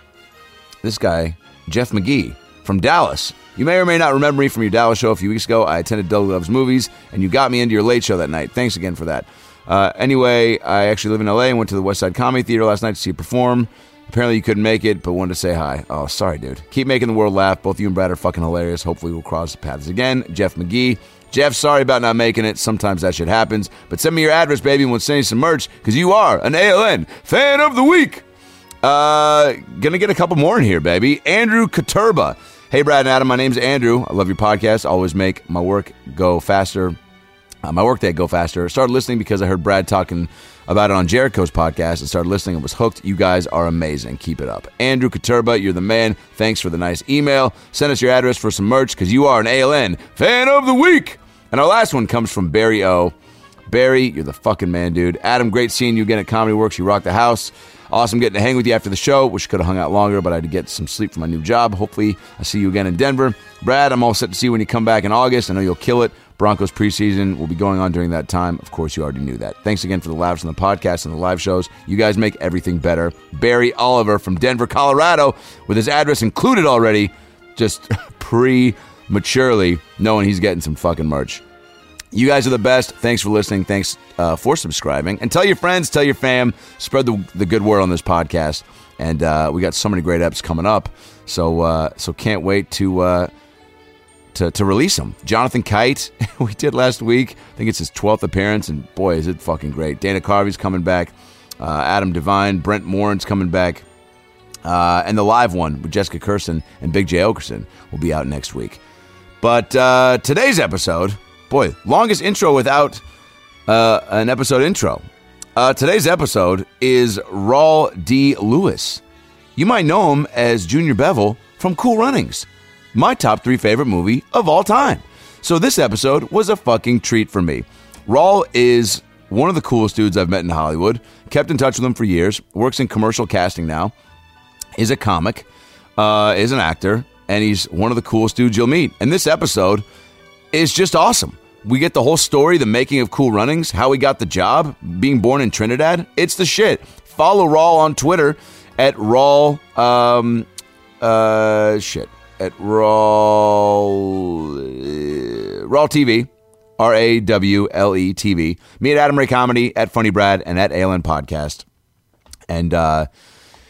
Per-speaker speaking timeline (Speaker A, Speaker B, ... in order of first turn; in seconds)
Speaker A: 0.8-28.2, 28.8-37.0, 37.6-53.1, 53.7-81.4, 82.1-93.3, 94.3-103.8, 104.6-108.8, 109.4-113.0, 113.7-115.0, 115.6-119.0, 119.6-133.9, 134.8-135.5, 136.0-139.8, 140.5-150.5, 151.0-161.7, 162.5-163.1